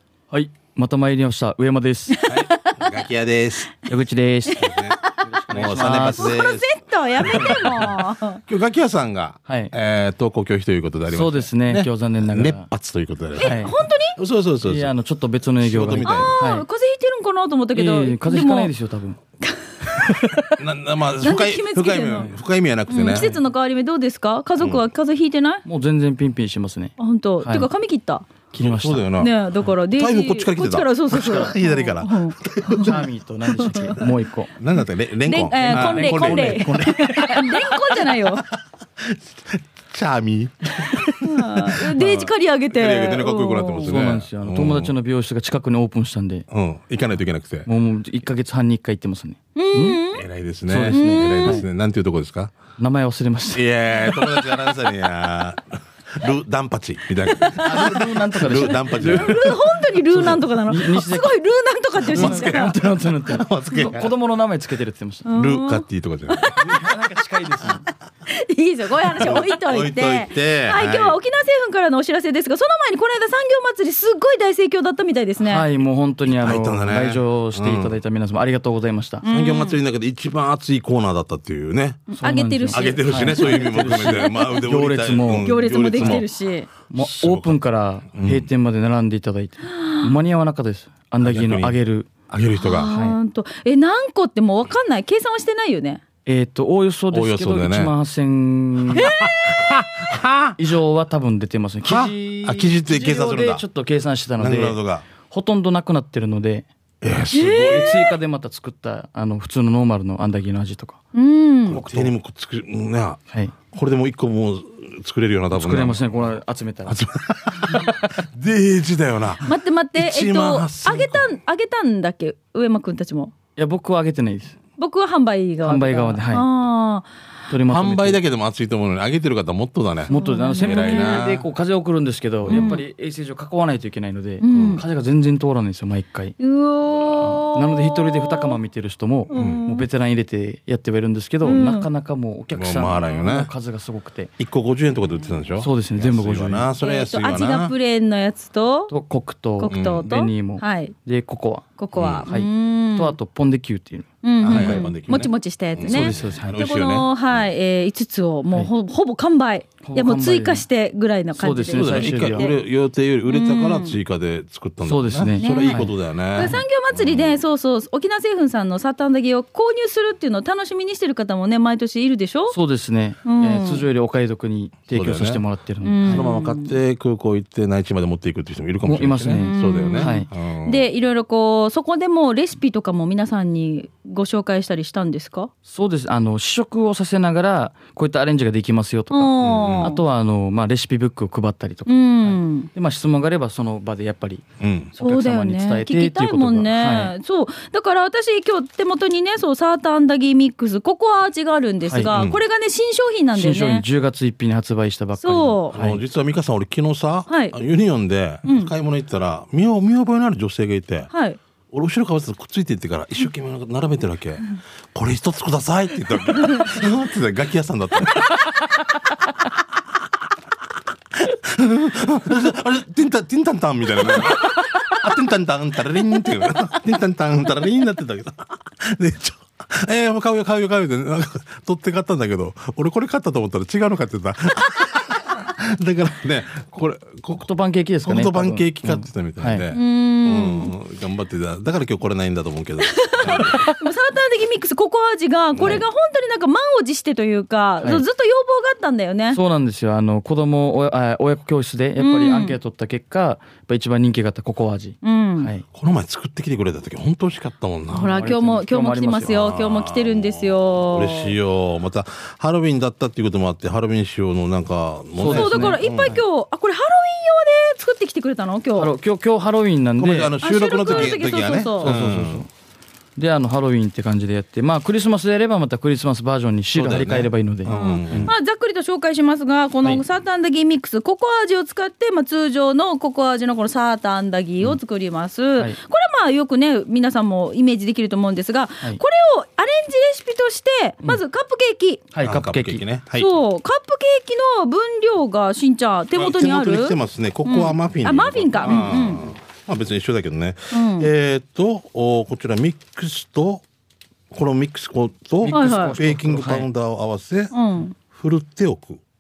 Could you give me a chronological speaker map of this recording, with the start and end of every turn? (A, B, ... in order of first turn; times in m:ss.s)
0:00.3-0:02.2 A
0:02.2-0:02.9 B
0:02.2-0:03.7 C
0:03.9-0:06.4 A
0:04.5-0:05.2 B
0:04.6-0:14.9 C
0:05.8-0:08.4 B
0:07.3-0:07.6 A
0:09.5-0:09.7 A
0:11.1-0:12.7 A
0:13.4-0:14.2 B
0:13.4-0:13.7 A
0:14.6-0:16.7 A
0:15.6-0:16.4 C
0:16.0-0:18.7 B
0:17.7-0:19.2 A
0:19.4-0:20.5 B
0:19.9-0:20.4 A
0:20.6-0:23.4 C
0:21.2-0:22.3 B
0:22.9-0:25.6 B
0:25.6-0:27.7 A
0:27.0-0:28.3 B
0:28.5-0:29.0 A
0:28.5-0:29.3 C
0:29.2-0:33.0 B
0:29.9-0:33.0 C
0:32.7-0:34.5 A
0:33.6-0:34.0 B
0:34.6-0:41.9 C
0:35.3-0:38.5 B
0:35.6-0:37.5 A
0:40.9-0:44.0 B
0:42.0-0:42.3 A
0:42.7-0:44.9 C
0:43.8-0:46.5 A
0:46.5-0:47.7 C
0:47.6-0:50.0 A
0:49.6-0:50.2 B
0:50.1-0:52.5 C
0:50.7-0:51.6 A
0:50.9-0:51.6 B
0:52.8-0:53.6 A
0:53.5-0:59.6 C
0:57.4-1:01.4 A
0:58.8-1:02.7 B
1:02.0-1:05.3 A
1:02.1-1:04.1 C
1:05.3-1:06.8 B
1:05.3-1:06.6 C
1:06.6-1:07.9 A
1:08.3-1:15.7 B
1:09.2-1:11.2 C
1:15.4-1:19.2 A
1:16.2-1:18.0 C
1:19.2-1:19.8 B
1:19.3-1:22.1 C
1:22.1-1:26.3 A
1:22.2-1:24.6 B
1:22.7-1:26.3 C
1:25.4-1:26.7 B
1:26.9-1:32.1 A
1:27.0-1:27.6 C
1:28.1-1:28.5 C
1:29.7-1:30.1 B
1:31.2-1:31.8 C
1:32.3-1:32.9 C
1:32.6-1:36.0 B
1:32.9-1:33.2 A
1:36.3-1:39.1 A
1:37.1-1:37.9 C
1:39.1-1:39.3 B
1:39.1-1:40.6 C
1:40.6-1:46.7 A
1:41.8-1:43.6 C
1:44.4-1:45.1 C
1:47.0-1:48.2 C
1:47.3-1:48.0 B
1:47.7-1:51.0 A
1:51.1-1:51.8 B
1:51.7-1:56.2 C
1:51.7-1:52.1 A
1:55.5-1:57.0 A
1:56.9-2:01.4 C
1:57.6-1:58.1 A
1:59.4-2:03.3 B
2:03.6-2:04.6 A
2:04.8-2:07.1 B
2:05.6-2:06.5 A
2:07.5-2:08.2 A
2:07.7-2:11.5 C
2:10.1-2:16.4 A
2:10.1-2:11.3 B
2:12.4-2:12.8 C
2:12.5-2:12.8 B
2:14.4-2:14.8 B
2:14.5-2:14.8 C
2:16.4-2:18.6 B
2:17.1-2:24.3 A
2:19.3-2:19.9 B
2:19.3-2:19.6 C
2:21.4-2:21.9 B
2:22.5-2:23.5 C
2:24.4-2:27.7 C
2:25.6-2:26.7 A
2:26.8-2:28.9 B
2:28.9-2:31.7 A
2:29.6-2:31.0 B
2:29.7-2:30.1 C
2:31.8-2:33.2 B
2:32.0-2:32.3 C
2:32.2-2:34.9 A
2:34.2-2:42.6 B
2:34.4-2:37.5 C
2:35.8-2:36.6 A
2:39.8-2:40.6 A
2:41.4-2:42.5 A
2:41.7-2:47.4 C
2:43.3-2:44.0 B
2:44.8-2:46.6 A
2:45.4-2:52.6 B
2:52.5-2:56.3 A
2:53.2-2:53.8 B
2:54.9-2:55.4 C
2:55.8-2:56.8 B
2:56.0-3:00.9 C
2:58.9-3:00.3 A
2:59.4-3:05.5 B
3:05.7-3:17.1 A
3:09.1-3:10.0 B
3:09.4-3:09.9 C
3:11.9-3:12.7 B
3:14.6-3:14.9 C
3:15.0-3:23.8 B
3:22.1-3:22.4 C
3:23.4-3:26.0 A
3:25.2-3:25.8 B
3:25.7-3:31.1 C
3:27.3-3:27.6 B
3:28.5-3:28.7 B
3:31.1-3:31.4 B
3:31.7-3:38.5 C
3:41.2-3:57.5 C
3:57.4-3:59.6 A
3:58.0-4:03.6 C
3:59.7-4:00.7 B
4:02.8-4:09.4 B
4:05.5-4:05.8 C
4:09.3-4:15.6 A
4:12.0-4:12.6 B
4:15.0-4:15.5 B
4:15.7-4:18.1 C
4:17.9-4:21.4 B
4:17.9-4:19.5 A
4:19.3-4:26.1 C
4:25.2-4:26.2 A
4:25.3-4:28.9 B
4:28.8-4:30.4 A
4:30.0-4:32.5 C
4:30.4-4:31.9 B
4:30.9-4:31.2 A
4:31.8-4:32.5 A
4:33.2-4:38.3 A
4:36.8-4:38.3 C
4:37.7-4:52.1 B
4:52.1-4:52.8 A
4:52.2-4:53.3 C
4:53.2-4:59.2 B
4:56.2-5:03.6 C
4:58.6-4:58.9 A
5:00.7-5:01.1 B
5:04.3-5:07.5 C
5:05.4-5:06.7 A
5:05.5-5:06.0 B
5:07.5-5:08.0 B
5:08.1-5:09.0 C